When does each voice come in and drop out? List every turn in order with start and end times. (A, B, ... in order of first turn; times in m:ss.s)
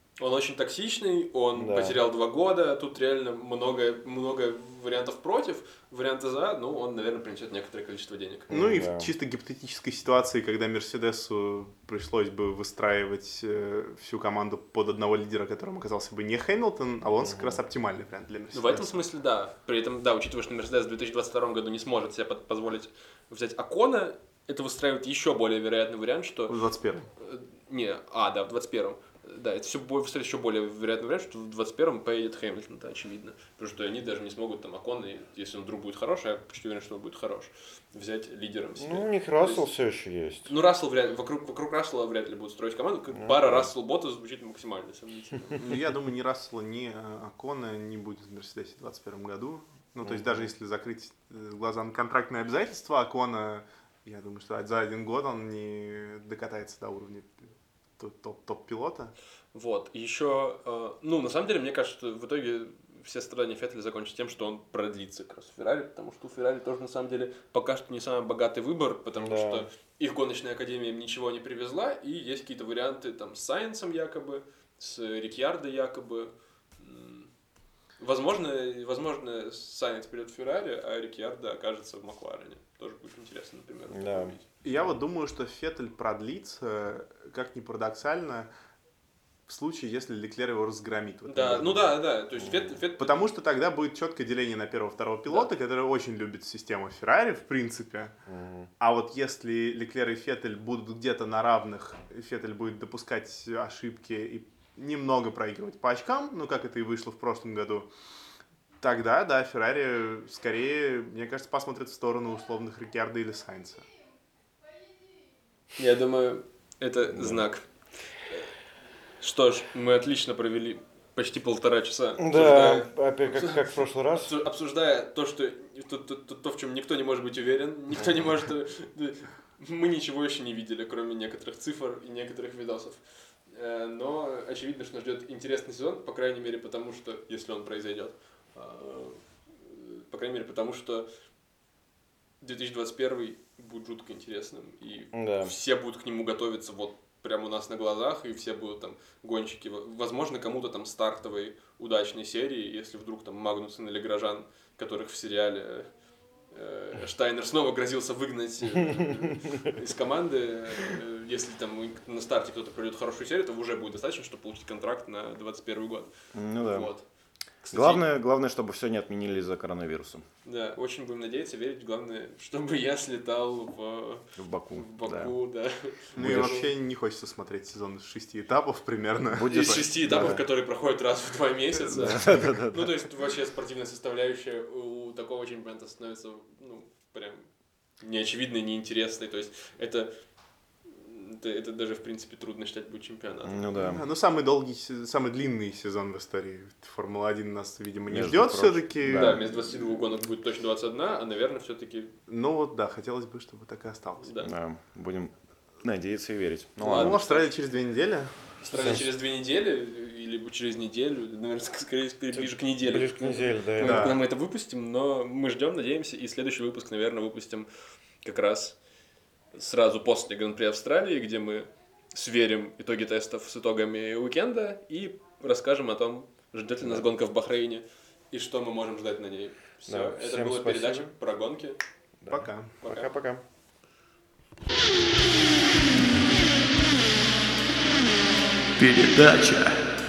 0:00.2-0:08.5 A
0:01.6-0:02.0 B
0:08.5-0:09.1 B
0:08.5-0:19.0 C
0:17.2-0:17.6 B
0:18.5-0:26.6 A
0:26.5-0:27.1 C
0:27.2-0:39.6 A
0:38.8-0:40.5 B
0:40.5-0:45.7 A
0:43.1-0:43.7 B
0:45.6-0:57.5 C
0:50.0-0:50.5 B
0:58.0-0:59.1 C
0:59.5-1:17.3 A
1:09.2-1:09.6 B
1:18.0-1:24.5 A
1:23.9-1:24.4 B
1:24.6-1:28.5 C
1:29.5-1:32.0 C
1:31.3-1:33.3 A
1:32.4-1:32.8 B
1:33.0-1:38.1 C
1:38.3-1:38.7 B
1:38.8-1:47.9 C
1:48.8-1:53.9 C
1:55.8-1:58.5 A
1:57.1-1:57.4 B
1:59.2-2:03.6 A
2:02.2-2:04.3 B
2:04.1-2:21.0 A
2:08.0-2:08.3 B
2:22.4-2:35.9 A
2:25.1-2:25.5 B
2:36.5-2:47.1 A
2:38.8-2:39.7 B
2:46.3-2:46.9 B
2:47.6-2:48.0 A
2:47.7-2:50.2 B
2:50.4-2:56.7 A
2:54.4-2:55.3 B
2:56.2-2:56.6 B
2:56.2-3:00.3 C
2:59.3-3:00.4 B
2:59.5-3:07.5 A
3:01.9-3:03.0 B
3:02.1-3:02.5 C
3:08.0-3:10.1 A
3:10.8-3:13.6 A
3:13.4-3:14.0 B
3:13.7-3:19.4 C
3:18.1-3:19.4 B
3:19.1-3:22.1 A
3:22.3-3:24.3 C
3:24.2-3:24.5 A
3:24.4-3:27.2 B
3:26.8-3:27.5 A
3:26.8-3:28.4 C
3:28.6-3:37.7 A
3:28.7-3:29.1 B
3:32.3-3:34.2 B
3:33.8-3:34.2 C
3:38.2-3:38.8 A
3:39.5-3:51.8 A
3:46.8-3:47.1 B
3:49.8-3:51.1 B
3:52.2-3:53.4 B
3:52.3-3:52.7 C
3:52.8-3:53.1 A
3:58.8-3:59.8 A